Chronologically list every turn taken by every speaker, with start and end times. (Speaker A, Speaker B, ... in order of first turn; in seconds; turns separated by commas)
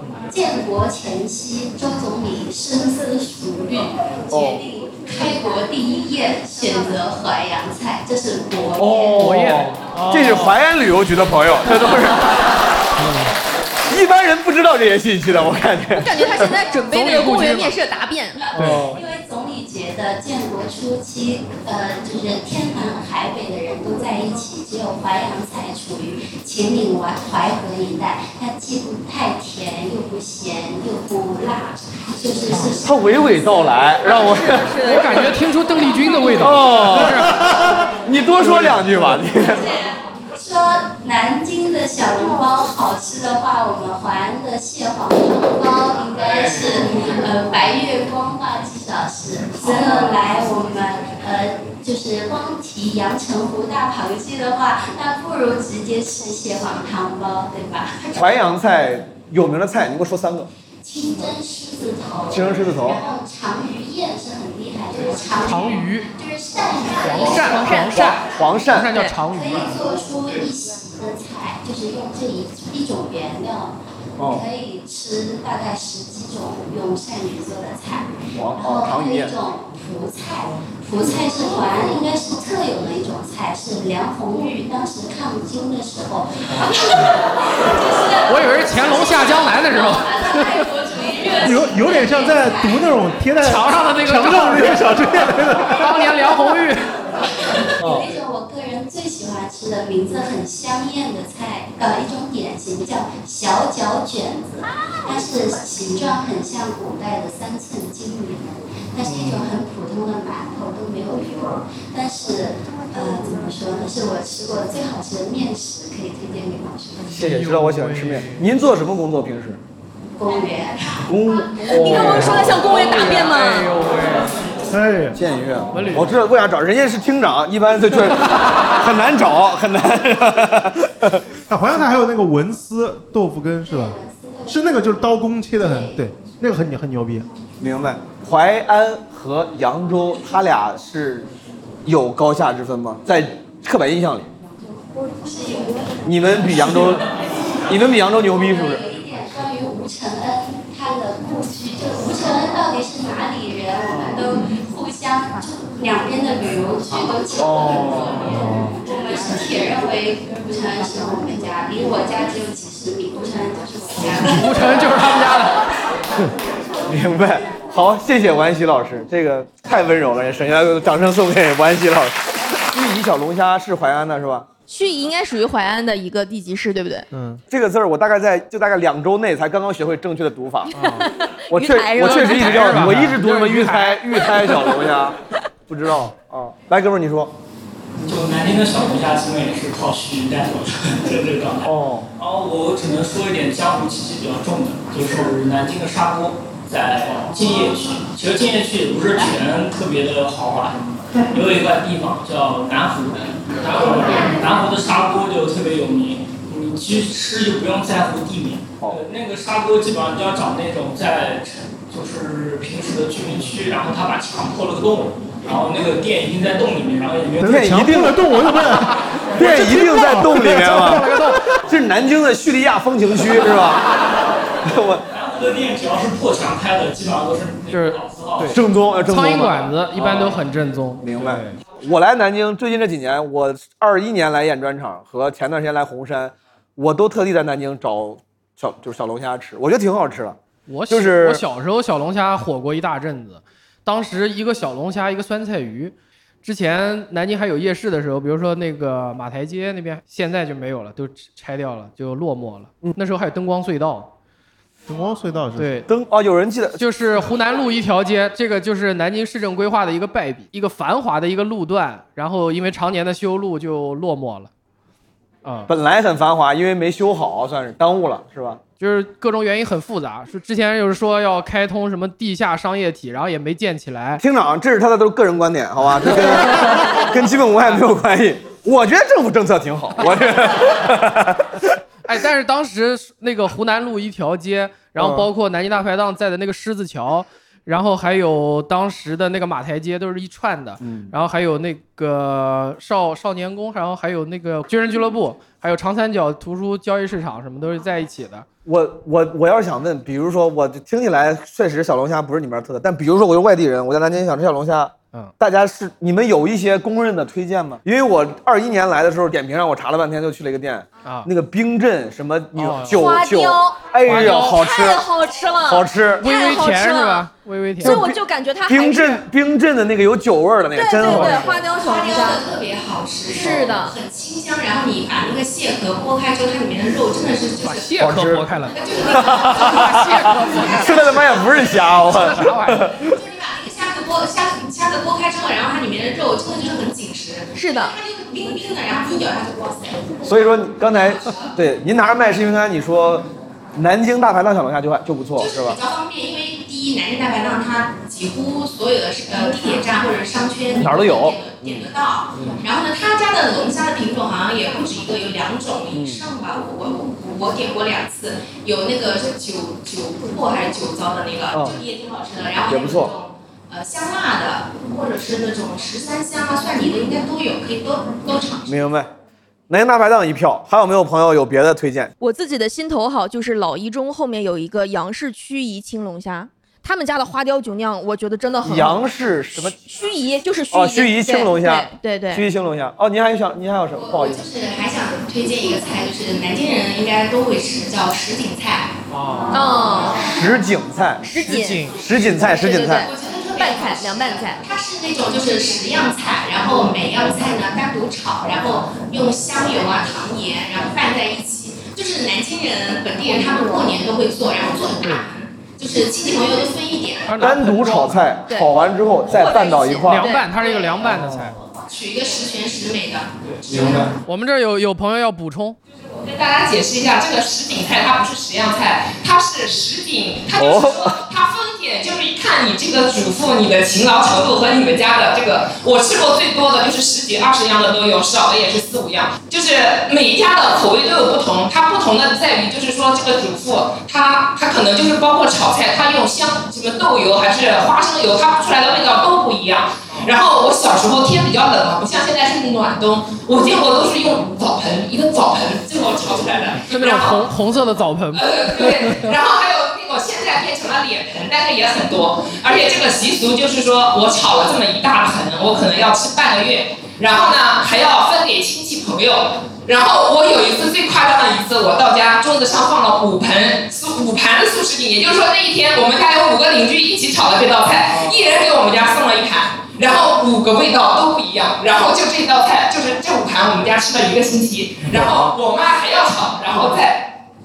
Speaker A: 0.3-9.3, Speaker B: 4.3-4.6, Speaker B: 8.8-12.4, Speaker C: 9.2-10.5, Speaker D: 13.0-13.3, Speaker B: 13.9-16.5, Speaker E: 16.0-18.5, Speaker C: 16.7-17.8, Speaker C: 18.6-18.9, Speaker B: 18.6-19.0, Speaker D: 18.6-18.9, Speaker A: 18.7-33.0, Speaker B: 32.8-34.8, Speaker E: 34.0-35.3, Speaker C: 34.8-37.5, Speaker B: 36.3-39.7, Speaker C: 38.4-39.1, Speaker A: 39.6-58.2, Speaker B: 49.6-50.0, Speaker B: 58.1-60.5, Speaker A: 60.8-67.9, Speaker B: 62.3-63.0, Speaker C: 65.4-66.1, Speaker C: 67.0-69.8, Speaker E: 67.1-68.2, Speaker B: 68.0-69.0, Speaker A: 69.2-87.1, Speaker B: 74.2-74.5, Speaker B: 78.3-79.3, Speaker C: 88.3-90.7, Speaker A: 90.0-91.4, Speaker D: 91.4-96.0, Speaker C: 93.4-95.0, Speaker C: 95.7-96.8, Speaker A: 97.8-117.2, Speaker B: 117.1-119.6, Speaker C: 117.1-118.5, Speaker A: 120.2-120.8, Speaker B: 121.1-122.6, Speaker E: 121.7-123.7, Speaker C: 121.9-124.4, Speaker D: 124.7-125.2, Speaker B: 125.2-131.2, Speaker C: 125.7-126.1, Speaker D: 131.5-137.3, Speaker A: 133.7-135.1, Speaker A: 135.6-136.0, Speaker B: 137.6-141.3, Speaker B: 141.8-144.3, Speaker A: 145.2-145.9, Speaker B: 146.0-147.1, Speaker B: 147.7-148.8, Speaker A: 148.4-164.8, Speaker B: 157.4-158.2, Speaker D: 158.4-158.7, Speaker C: 164.2-165.6, Speaker B: 166.9-174.5, Speaker E: 174.7-177.1, Speaker D: 177.1-177.4, Speaker B: 177.5-180.7, Speaker C: 180.7-181.1, Speaker E: 180.8-183.0, Speaker B: 181.5-185.2, Speaker C: 182.0-184.2, Speaker B: 185.7-187.3, Speaker F: 188.1-200.8, Speaker B: 191.6-192.1, Speaker F: 201.3-217.7, Speaker B: 217.4-218.2, Speaker D: 217.4-221.3, Speaker B: 219.3-221.1, Speaker C: 220.4-221.4, Speaker B: 221.7-223.9, Speaker B: 224.6-225.0, Speaker F: 225.1-228.6, Speaker C: 227.7-228.6, Speaker B: 228.4-230.3, Speaker C: 229.1-231.6, Speaker B: 231.0-240.4, Speaker C: 240.7-254.1, Speaker B: 240.9-241.4, Speaker D: 254.9-255.8, Speaker C: 255.6-255.9, Speaker B: 255.9-256.8, Speaker C: 256.8-264.5, Speaker C: 265.4-265.7, Speaker B: 265.7-268.6, Speaker C: 268.8-274.2, Speaker B: 274.2-281.7, Speaker C: 282.1-298.5, Speaker B: 285.0-285.3, Speaker B: 290.8-291.1, Speaker B: 298.7-315.1, Speaker C: 312.6-313.0, Speaker E: 312.9-317.3, Speaker C: 314.1-314.6, Speaker B: 315.7-316.2, Speaker C: 316.2-318.0, Speaker E: 317.8-319.2, Speaker B: 317.8-318.1, Speaker B: 318.7-321.6, Speaker E: 320.7-322.4, Speaker C: 321.0-321.5, Speaker G: 321.7-327.9, Speaker E: 323.3-324.0, Speaker C: 327.6-328.8, Speaker B: 328.0-328.5, Speaker G: 328.7-330.0, Speaker B: 329.1-333.1, Speaker C: 329.4-331.2, Speaker G: 330.5-330.9, Speaker C: 332.0-332.9, Speaker G: 333.0-340.2, Speaker E: 337.6-337.9, Speaker B: 340.2-345.8, Speaker G: 341.1-341.5, Speaker G: 345.4-368.8, Speaker B: 350.8-352.6, Speaker B: 355.9-356.3, Speaker B: 361.5-361.8, Speaker B: 362.7-363.1, Speaker B: 368.7-369.1, Speaker B: 369.7-372.1, Speaker E: 372.2-379.0, Speaker B: 378.6-379.8, Speaker E: 379.6-382.4, Speaker B: 380.7-384.4, Speaker G: 383.9-388.9, Speaker C: 389.1-389.6, Speaker E: 389.5-390.2, Speaker B: 390.2-391.2, Speaker E: 391.2-394.6, Speaker C: 391.3-392.0, Speaker B: 391.9-393.1, Speaker G: 393.0-407.3, Speaker C: 407.3-408.2, Speaker B: 407.4-410.3, Speaker E: 408.5-408.8, Speaker E: 409.3-410.5, Speaker C: 410.1-411.6, Speaker B: 411.0-411.5, Speaker G: 411.9-414.1, Speaker B: 413.8-414.1, Speaker C: 414.2-415.8, Speaker H: 416.1-447.5, Speaker B: 420.6-421.2, Speaker C: 446.9-449.3, Speaker H: 448.4-477.3, Speaker B: 468.1-468.4, Speaker B: 475.1-475.6